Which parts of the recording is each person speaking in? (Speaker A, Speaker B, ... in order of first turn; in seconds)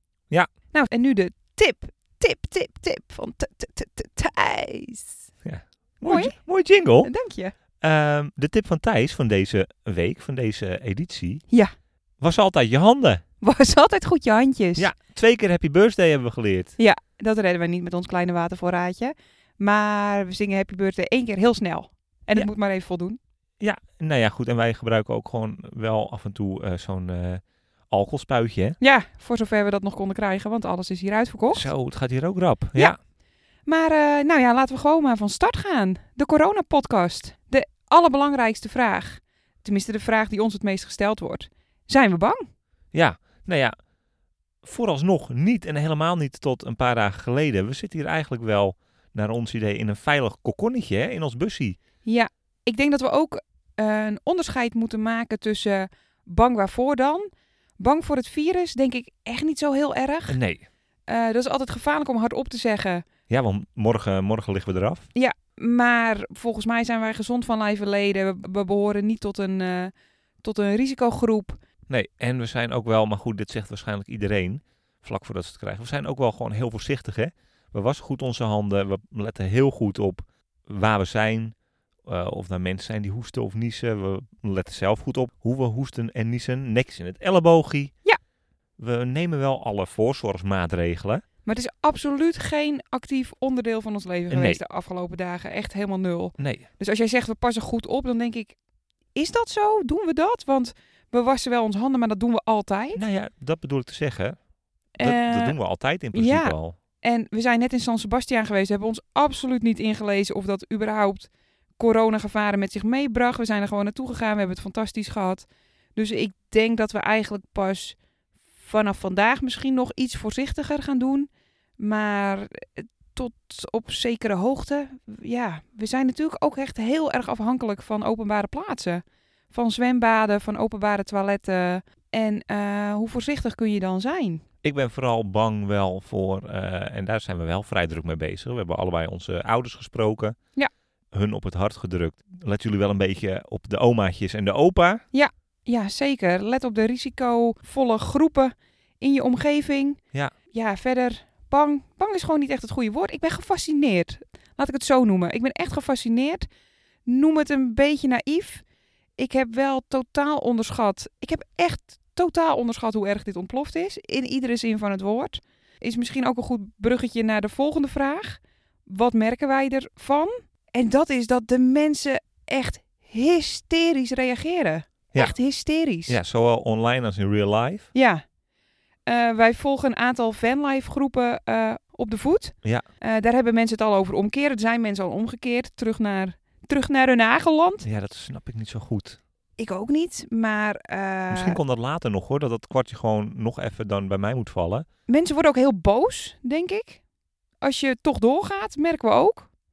Speaker A: 0.7-5.2, 6.0-6.3, 7.0-7.5, 13.4-14.9, 16.8-23.2, 28.8-31.7, 33.7-42.5, 52.0-60.4, 61.1-63.1, 65.2-71.6, 91.5-98.6, 99.2-103.0, 105.0-105.6, 106.1-118.0, 118.6-134.4, 145.1-150.0, 150.5-156.5, 157.1-158.6, 159.2-176.2, 177.9-178.2, 179.1-187.8, 189.6-191.6, 195.1-197.0, 197.6-199.5
Speaker B: 5.4-7.1, 7.8-11.4, 12.2-13.2, 14.8-16.8, 23.6-28.8, 31.5-33.0, 42.9-43.8, 44.6-51.8, 60.3-60.6, 63.3-65.1, 71.9-81.5, 82.0-87.9, 88.8-91.2, 94.3-94.6, 96.4-96.7, 103.0-104.4, 105.0-106.8, 134.6-140.4, 141.1-145.0, 176.1-177.9, 187.8-189.2, 191.3-194.9